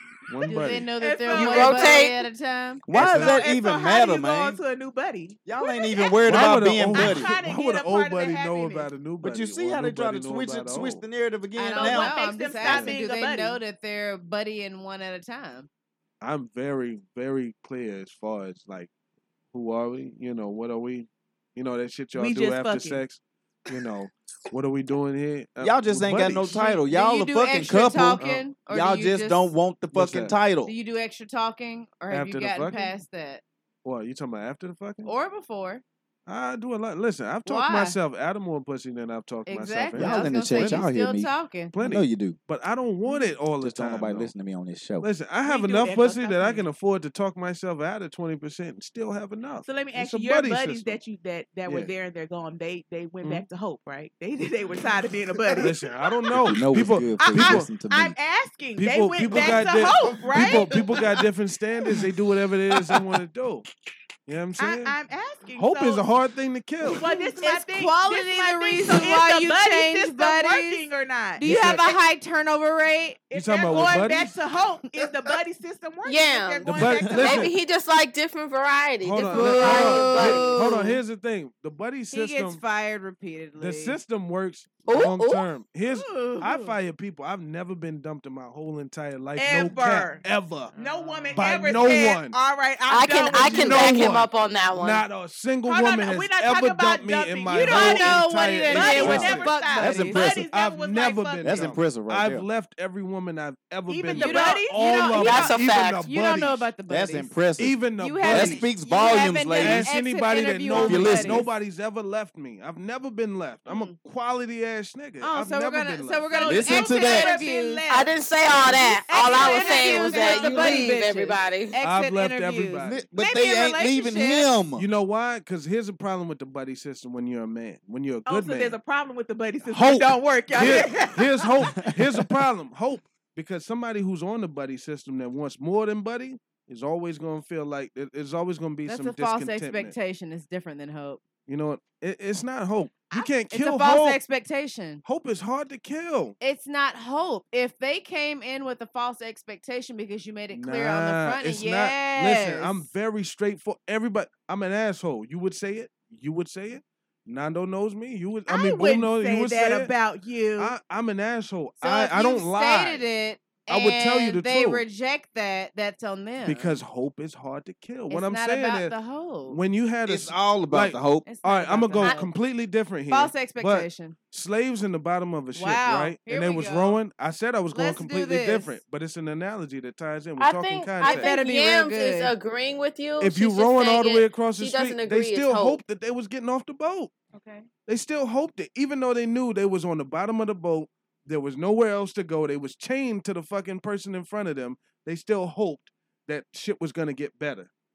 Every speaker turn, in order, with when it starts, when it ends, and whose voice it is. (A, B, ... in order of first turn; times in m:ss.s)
0:00.3-0:00.9 A
0:00.4-0:02.1 B
0:00.5-0:02.8 C
0:01.4-0:02.1 D
0:02.9-0:04.6 E
0:02.9-0:03.4 A
0:02.9-0:08.9 B
0:05.4-0:07.3 E
0:06.2-0:11.0 A
0:09.2-0:12.1 E
0:11.6-0:15.7 C
0:11.7-0:13.6 B
0:12.6-0:13.0 A
0:16.2-0:18.9 A
0:19.5-0:26.7 A
0:22.2-0:23.0 B
0:25.6-0:30.7 E
0:26.5-0:29.5 C
0:29.9-0:30.4 A
0:30.6-0:33.4 C
0:32.1-0:32.9 A
0:33.8-0:35.1 A
0:35.0-0:35.8 C
0:36.3-0:40.9 A
0:37.4-0:38.0 C
0:39.5-0:41.8 C
0:40.0-0:42.4 E
0:41.7-0:44.3 A
0:43.6-0:45.1 E
0:45.0-0:51.0 A
0:45.4-0:46.7 B
0:49.6-0:55.7 B
0:51.6-0:51.9 A
0:55.5-0:57.7 A
0:56.3-0:58.1 E
0:57.2-1:00.7 B
0:58.8-1:03.7 A
1:04.3-1:04.9 A
1:04.6-1:06.0 B
1:05.6-1:07.1 A
1:06.9-1:11.5 B
1:07.0-1:10.8 C
1:11.4-1:13.2 C
1:11.4-1:11.8 A
1:13.3-1:17.5 B
1:13.3-1:14.3 A
1:16.0-1:20.6 D
1:16.6-1:17.5 A
1:19.0-1:22.6 A
1:19.2-1:21.0 C
1:19.7-1:20.4 B
1:22.1-1:24.0 C
1:23.6-1:30.7 A
1:24.8-1:25.4 D
1:25.9-1:26.7 C
1:29.4-1:30.2 B
1:30.7-1:34.2 B
1:30.8-1:31.3 C
1:31.3-1:32.4 A
1:32.9-1:35.0 D
1:33.3-1:39.5 A
1:35.6-1:41.7 B
1:37.5-1:40.3 C
1:38.7-1:40.5 E
1:40.2-1:46.7 A
1:41.4-1:42.4 E
1:43.9-1:45.5 B
1:44.1-1:47.3 C
1:45.2-1:46.0 D
1:46.9-1:49.9 E
1:47.6-1:48.7 A
1:48.0-1:51.5 C
1:49.6-1:56.5 A
1:50.7-1:51.5 E
1:53.6-1:54.0 C
1:55.2-1:58.0 C
1:56.3-1:58.1 B
1:56.4-1:57.3 E
1:57.9-2:01.8 D
1:58.5-1:58.8 E
1:59.0-2:04.5 C
1:59.1-2:00.8 B
2:01.8-2:03.0 A
2:02.8-2:04.8 E
2:04.7-2:08.8 A
2:08.2-2:11.3 B
2:10.5-2:19.9 A
2:18.8-2:21.2 C
2:21.4-2:24.2 A
2:23.1-2:25.0 C
2:25.0-2:26.3 A
2:26.4-2:32.8 C
2:30.5-2:39.9 A
2:38.5-2:40.7 B
2:40.6-2:43.0 A
2:41.8-2:46.7 C
2:43.7-2:44.8 A
2:46.4-2:48.9 A
2:48.1-2:49.6 C
2:49.5-3:01.4 A
2:50.0-2:51.3 E
2:51.2-2:52.3 C
2:53.1-2:54.2 C
2:55.5-2:57.0 C
2:57.7-2:58.8 C
3:00.4-3:05.8 D
3:01.0-3:02.3 C
3:03.2-3:07.1 A
3:07.3-3:07.6 B
3:07.9-3:17.7 A